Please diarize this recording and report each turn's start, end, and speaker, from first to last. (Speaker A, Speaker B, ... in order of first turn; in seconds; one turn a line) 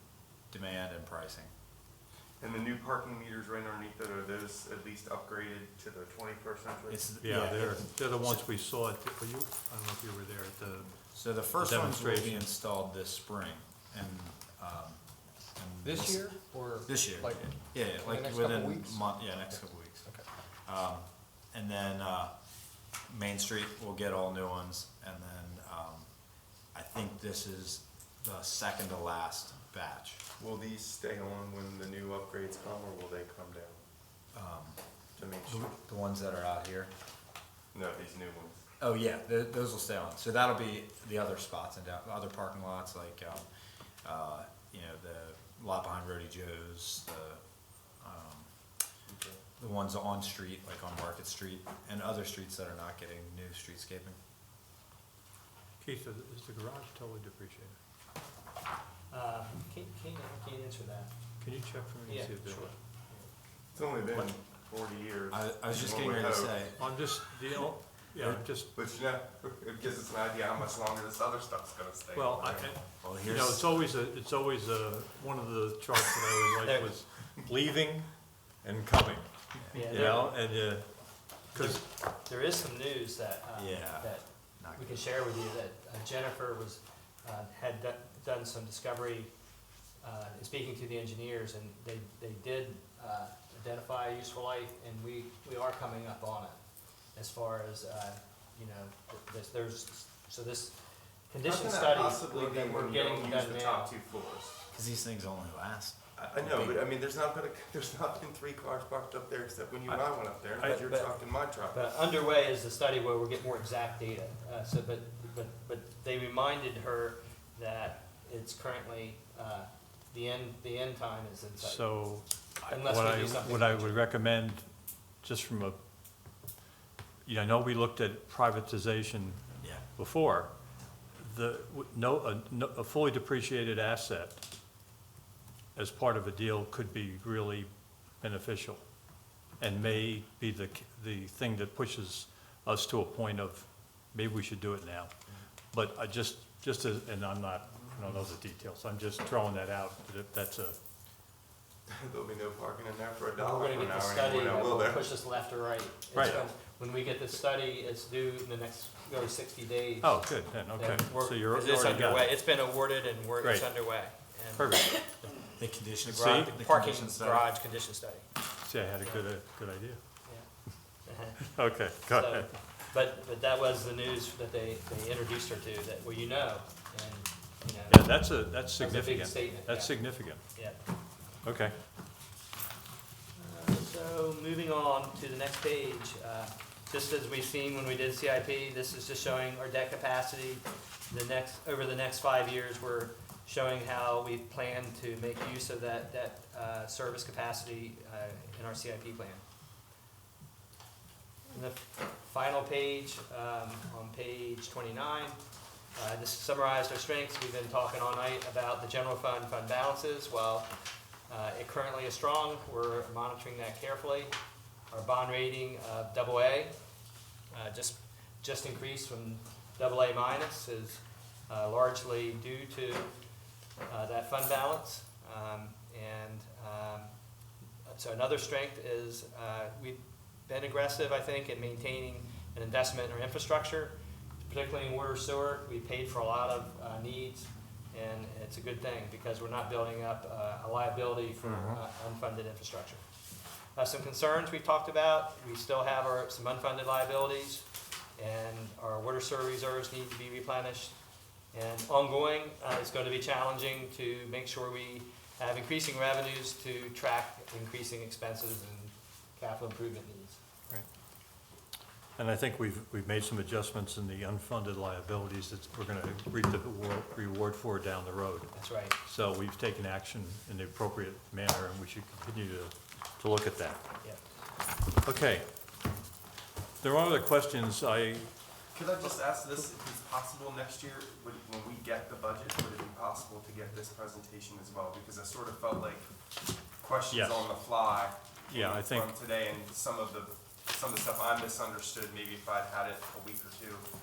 Speaker A: 0.5-1.5
Speaker B: 2.4-7.0
Speaker A: 6.9-8.5
Speaker C: 7.2-12.5
Speaker A: 11.1-20.1
Speaker D: 15.8-20.2
Speaker A: 20.6-22.3
Speaker A: 23.1-26.1
Speaker A: 26.7-30.2
Speaker B: 30.4-33.8
Speaker A: 34.3-34.8
Speaker B: 35.2-35.7
Speaker A: 35.5-36.9
Speaker B: 37.7-38.5
Speaker A: 38.8-43.5
Speaker A: 44.0-47.4
Speaker A: 48.0-48.5
Speaker B: 49.1-49.4
Speaker A: 49.6-54.2
Speaker C: 55.8-57.8
Speaker E: 59.1-61.1
Speaker C: 61.4-62.7
Speaker E: 62.1-63.3
Speaker B: 63.7-66.5
Speaker A: 65.3-66.8
Speaker C: 66.8-68.7
Speaker B: 68.6-72.7
Speaker C: 72.1-81.8
Speaker A: 73.0-73.7
Speaker E: 76.6-77.0
Speaker A: 79.6-80.0
Speaker E: 79.7-80.4
Speaker E: 81.5-89.3
Speaker A: 83.5-85.0
Speaker E: 90.0-96.6
Speaker E: 97.1-100.8
Speaker E: 101.3-103.9
Speaker B: 101.4-104.7
Speaker A: 104.7-106.8
Speaker B: 106.2-111.9
Speaker C: 110.6-110.8
Speaker E: 110.8-111.2
Speaker E: 111.7-124.0
Speaker C: 121.6-124.7
Speaker C: 125.2-125.8
Speaker C: 127.2-130.5
Speaker C: 131.2-134.4
Speaker C: 135.7-138.8
Speaker C: 139.6-145.1
Speaker C: 145.7-150.8
Speaker B: 151.9-155.2
Speaker E: 153.3-165.3
Speaker C: 156.1-156.4
Speaker C: 160.0-162.4
Speaker C: 163.4-163.8
Speaker C: 164.5-165.3
Speaker A: 165.3-167.5
Speaker C: 166.0-166.5
Speaker E: 166.1-168.2
Speaker C: 168.6-170.0
Speaker E: 169.0-169.3
Speaker E: 171.0-180.8
Speaker C: 171.4-172.6
Speaker C: 177.9-180.5
Speaker C: 181.4-181.8
Speaker E: 183.3-199.4
Speaker E: 201.5-205.4
Speaker E: 205.9-210.7
Speaker E: 211.3-214.3
Speaker E: 214.9-216.7
Speaker E: 217.5-223.1
Speaker E: 223.8-227.1
Speaker E: 227.9-243.0
Speaker C: 241.5-241.8
Speaker E: 243.8-247.7
Speaker E: 248.2-250.9
Speaker E: 251.5-260.4
Speaker C: 262.2-273.9
Speaker E: 268.5-268.9
Speaker C: 275.0-275.5
Speaker C: 276.8-278.3
Speaker B: 278.7-286.1
Speaker B: 286.8-293.9
Speaker C: 287.1-287.5
Speaker C: 288.5-289.1